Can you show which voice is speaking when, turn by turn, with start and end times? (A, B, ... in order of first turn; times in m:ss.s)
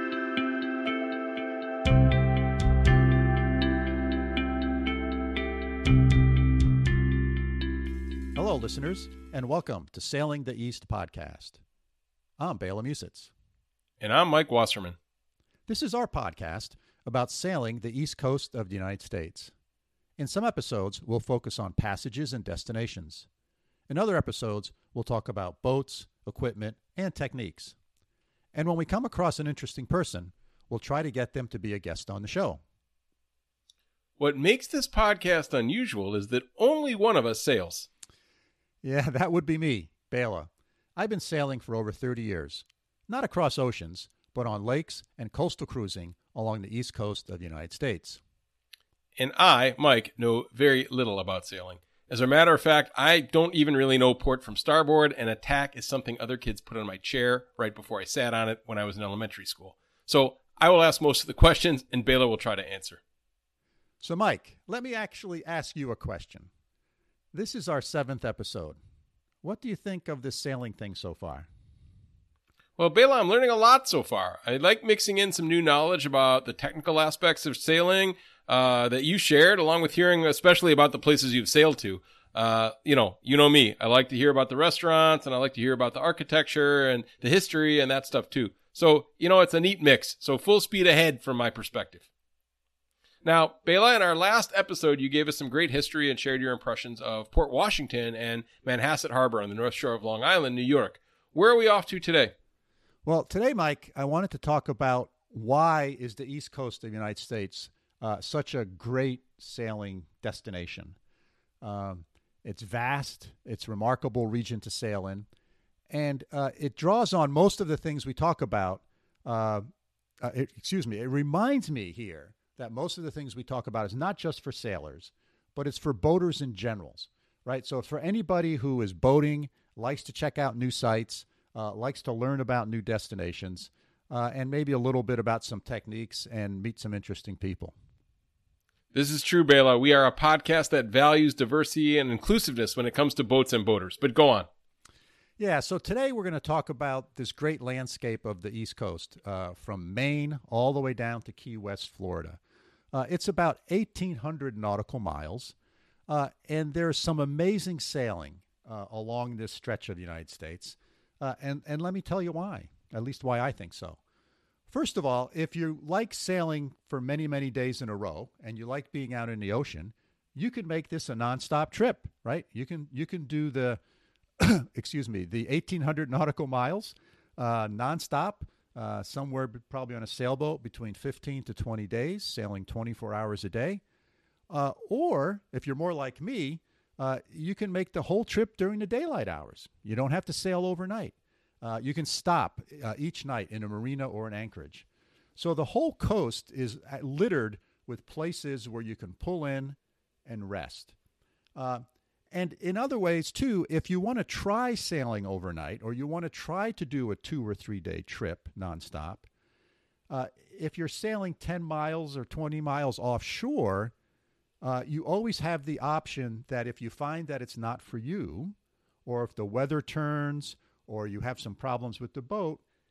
0:08.4-0:11.6 A
0:12.4-0:13.3 A
0:14.0-0:15.0 B
0:15.7-0:19.5 A
0:20.2-0:23.3 A
0:23.9-0:27.8 A
0:28.5-0:32.6 A
0:34.2-0:37.9 B
0:38.8-0:48.2 A
0:49.2-1:03.0 B
1:04.0-1:06.5 A
1:07.3-1:08.8 A
1:09.4-1:11.5 A
1:12.8-1:32.1 B
1:33.2-1:42.3 B
1:43.0-1:51.0 A
1:51.6-1:55.3 A
1:55.9-1:59.6 A
2:00.2-2:17.8 A
2:18.9-2:24.5 B
2:25.4-2:32.4 A
2:32.9-2:35.6 A
2:36.1-2:44.0 A
2:44.7-2:53.8 A
2:54.4-3:03.8 A
3:04.5-3:21.0 A
3:21.6-3:29.3 A
3:30.1-3:33.9 A
3:34.6-3:42.6 A